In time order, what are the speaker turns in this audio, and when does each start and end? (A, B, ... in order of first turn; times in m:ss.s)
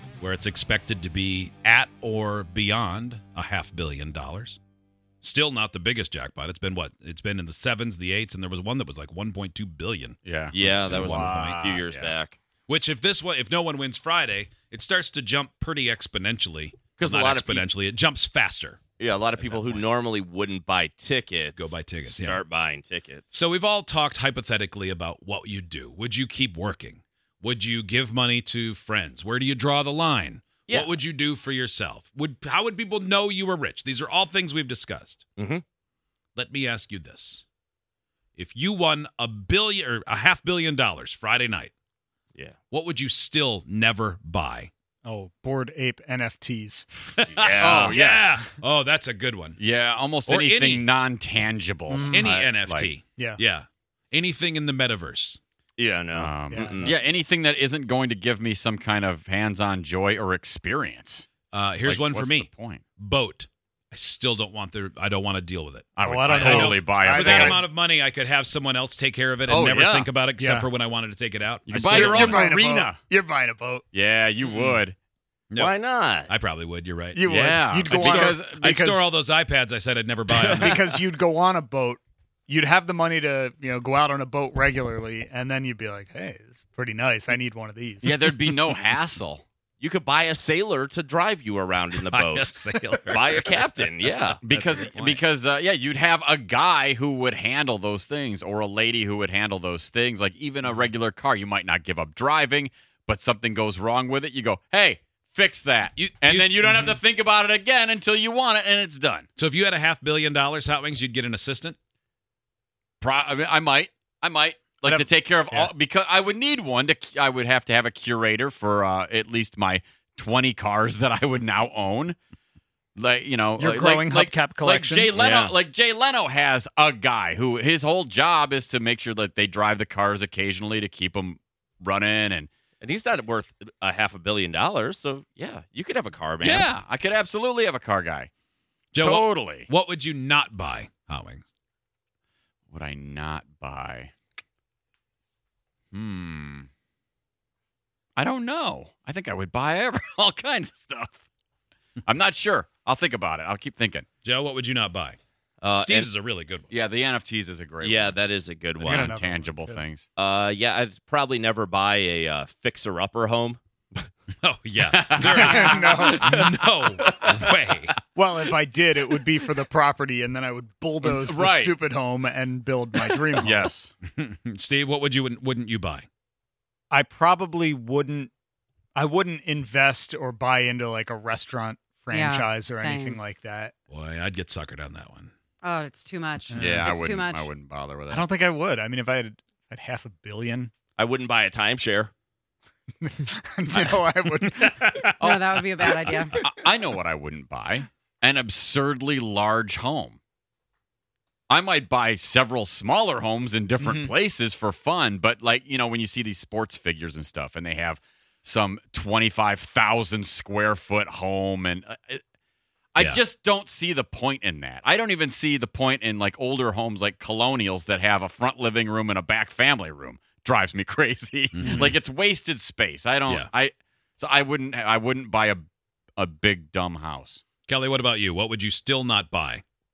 0:00.2-0:04.6 A
0:05.2-0:10.2 A
0:10.2-0:12.1 B
0:10.5-0:12.4 C
0:10.8-0:11.7 A
0:12.7-0:18.8 A
0:17.0-0:17.7 C
0:19.0-0:23.3 C
0:19.4-0:19.8 A
0:21.6-0:22.4 A
0:23.3-0:35.2 A
0:35.4-0:35.6 C
0:36.4-0:37.4 A
0:38.4-0:41.7 A
0:42.7-0:44.7 A
0:45.0-0:46.9 D
0:47.2-0:49.6 A
0:47.3-0:48.0 C
0:47.6-0:48.4 B
0:49.6-0:52.9 B
0:50.3-0:50.8 A
0:52.1-0:55.4 A
0:55.8-0:57.0 C
0:56.2-1:01.3 B
0:56.5-0:56.9 D
1:01.5-1:12.5 A
1:01.8-1:02.8 B
1:06.0-1:07.6 B
1:06.0-1:07.6 D
1:09.5-1:10.1 B
1:10.4-1:10.7 D
1:11.7-1:13.0 B
1:11.7-1:13.8 D
1:13.9-1:15.0 B
1:15.6-1:16.3 C
1:16.3-1:17.2 A
1:17.1-1:19.1 D
1:17.3-1:18.7 B
1:17.9-1:20.8 A
1:20.4-1:20.8 C
1:20.5-1:28.2 D
1:28.0-1:29.4 B
1:29.8-1:32.5 C
1:32.1-1:35.2 A
1:33.1-1:34.4 C
1:34.4-1:49.3 B
1:46.0-1:47.0 A
1:49.4-1:51.8 A
1:53.0-2:02.2 B
1:54.8-1:55.7 D
2:03.0-2:12.5 B
2:03.6-2:05.5 D
2:12.8-2:16.7 C
2:16.4-2:18.3 B
2:18.9-2:21.4 A
2:19.0-2:19.7 B
2:22.7-2:24.1 B
2:25.9-2:26.7 B
2:28.2-2:31.2 B
2:32.1-2:34.1 B
2:34.2-2:35.2 A
2:35.6-2:36.1 C
2:35.8-2:36.7 A
2:36.7-2:38.2 B
2:37.8-2:39.2 C
2:38.8-2:40.1 B
2:38.8-2:39.8 D
2:40.2-2:44.1 C
2:44.4-2:48.0 A
2:44.9-2:45.9 B
2:45.3-2:46.4 D
2:46.1-2:47.4 C
2:48.2-2:53.7 D
2:51.0-2:51.8 B
2:53.4-2:53.9 B
2:54.1-2:56.1 A
2:56.9-2:58.3 D
2:59.0-3:03.7 D
3:02.1-3:03.2 E
3:03.9-3:05.3 A
3:05.6-3:07.5 E
3:06.5-3:07.1 D
3:06.5-3:08.3 B
3:08.1-3:10.7 D
3:11.0-3:12.1 C
3:13.0-3:15.1 D
3:14.5-3:15.6 A
3:15.2-3:16.4 E
3:16.4-3:20.2 B
3:21.5-3:32.2 B
3:23.8-3:24.1 D
3:33.0-3:45.6 B
3:41.6-3:42.0 A
3:46.2-3:47.4 B
3:47.7-3:49.6 A